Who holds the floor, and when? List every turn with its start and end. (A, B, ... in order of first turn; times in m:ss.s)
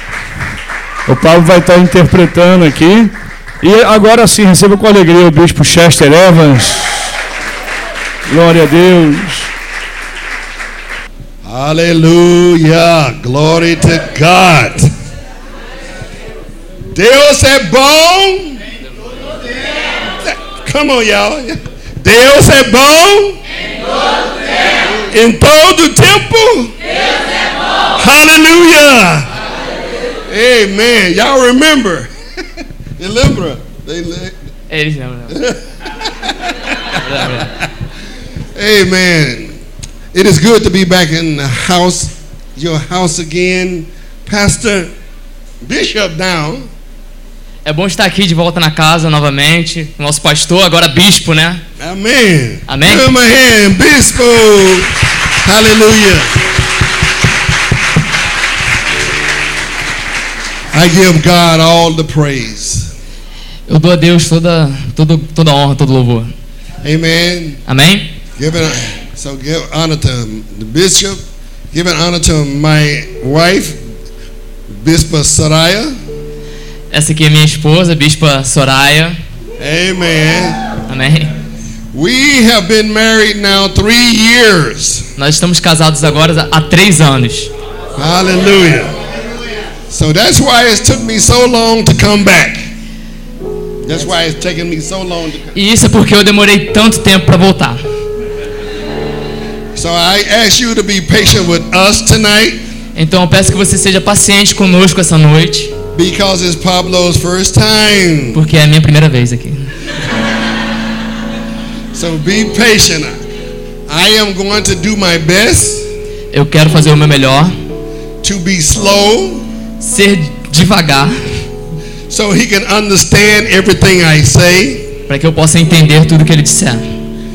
0:01.1-0:07.1 A
0:08.3-0:09.5 A
0:11.4-0:14.9 B
0:16.9-0:18.6 B
0:20.0-0:23.4 B
0:25.1-0:26.7 B
0:28.0-0:29.3 B
0:30.3-0:32.1 B
0:33.0-0:34.3 B
0:34.7-0:35.4 C
0:35.3-0:37.6 B
0:36.9-0:37.5 C
0:38.5-0:39.6 B
0:40.1-0:44.9 B
0:45.6-0:46.7 B
0:47.6-0:51.6 C
0:51.8-0:56.4 B
0:52.7-0:53.1 C
1:00.7-1:02.9 B
1:03.7-1:06.3 C
1:06.8-1:07.6 B
1:07.7-1:08.1 C
1:08.4-1:13.8 B
1:14.8-1:16.0 B
1:16.9-1:19.2 C
1:19.6-1:20.6 B
1:20.9-1:21.3 C
1:21.9-1:25.1 B
1:25.2-1:27.5 C
1:28.0-1:29.0 B
1:29.9-1:32.7 B
1:33.8-1:35.5 B
1:35.5-1:37.8 C
1:39.7-1:42.6 B
1:42.9-1:45.7 C
1:45.9-1:48.4 B
1:48.3-1:49.7 C
1:51.9-1:53.1 B
1:53.9-1:55.9 B
1:56.3-1:57.5 C
1:58.2-1:59.4 B
1:59.8-2:01.2 C
2:02.1-2:04.9 B
2:05.1-2:06.8 C